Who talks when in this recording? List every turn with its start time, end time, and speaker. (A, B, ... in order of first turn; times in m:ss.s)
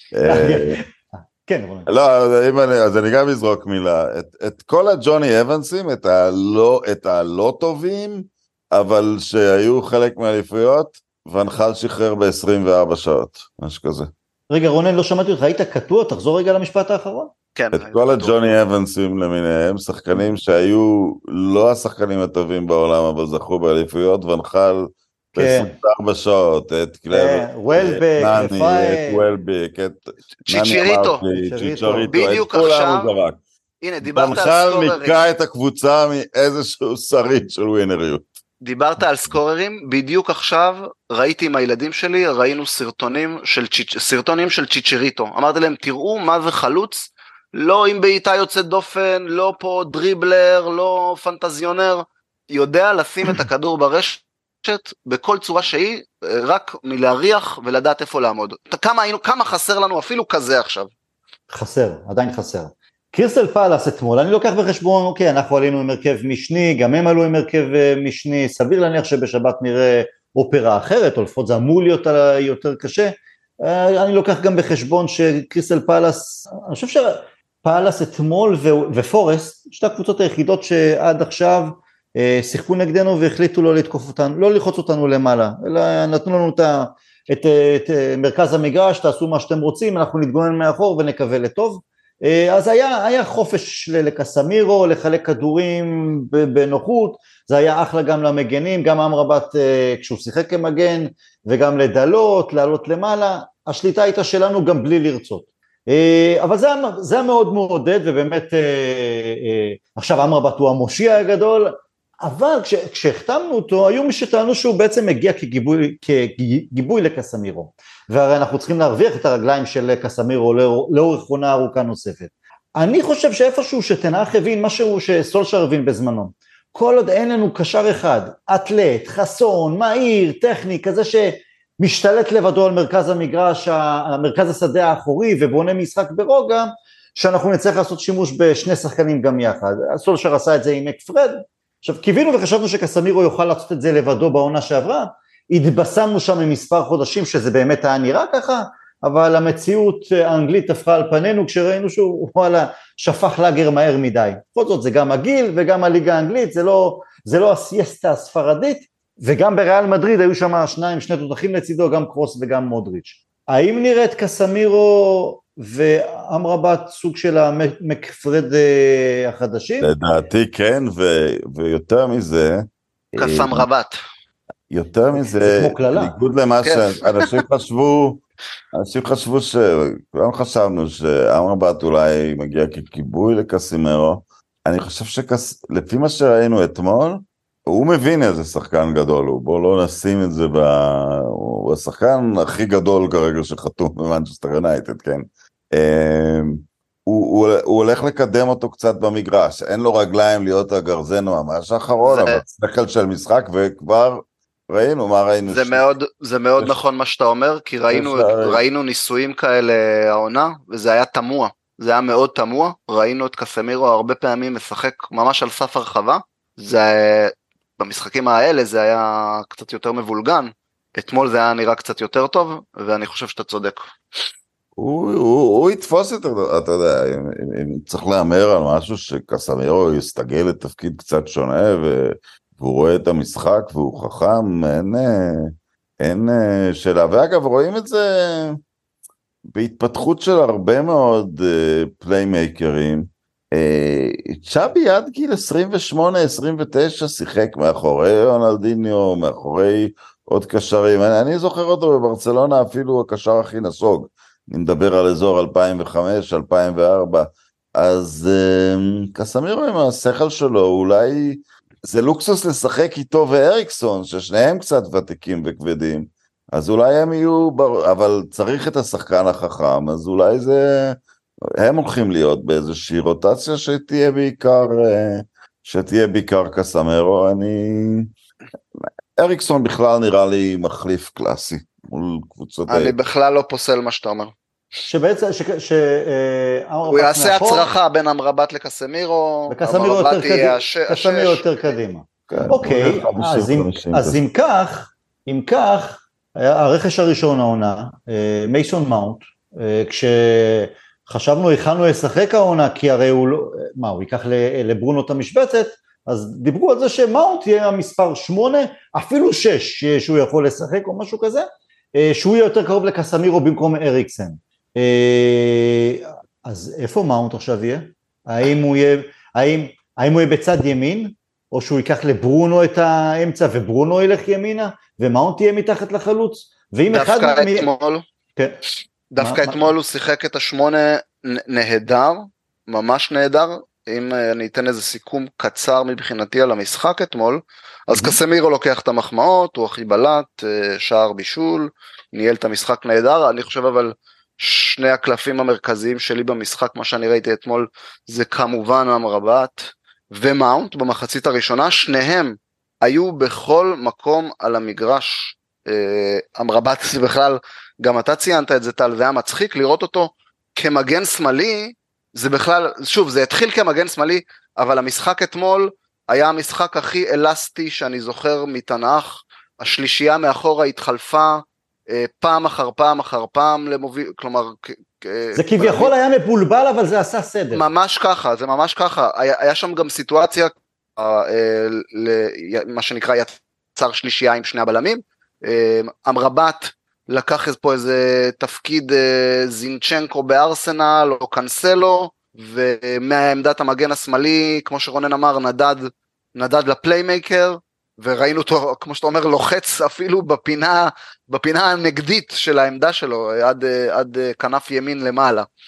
0:00.1-0:00.8 A
0:00.2-0:01.9 B
0:01.9-0:14.1 A
0:14.5-0:17.3 B
0:17.6-0:18.6 C
0:17.7-0:33.4 A
0:25.3-0:25.7 B
0:27.1-0:29.2 B
0:30.5-0:31.2 C
0:31.3-0:32.4 B
0:32.1-0:33.1 C
0:33.8-0:35.2 C
0:34.0-0:38.3 A
0:38.6-1:00.9 C
1:01.5-2:49.9 B
2:49.8-2:53.7 A
2:53.2-2:54.0 C
2:54.7-2:58.2 A
2:55.1-2:56.2 B
2:56.6-2:57.3 C
2:58.7-3:25.8 A
3:22.0-3:22.4 C
3:25.4-3:43.9 C
3:27.9-3:28.6 A
3:44.8-3:58.6 A
3:59.5-4:31.0 A
4:31.6-4:38.1 A
4:38.8-4:42.9 A
4:42.7-4:44.3 C
4:44.9-4:47.7 B
4:46.9-4:51.4 C
4:49.5-5:27.7 B
4:52.3-4:54.2 A
5:26.9-5:28.0 C
5:29.1-6:15.9 C
5:29.2-5:29.7 B
5:37.9-5:38.2 B
6:15.3-6:17.6 B
6:17.5-6:45.5 C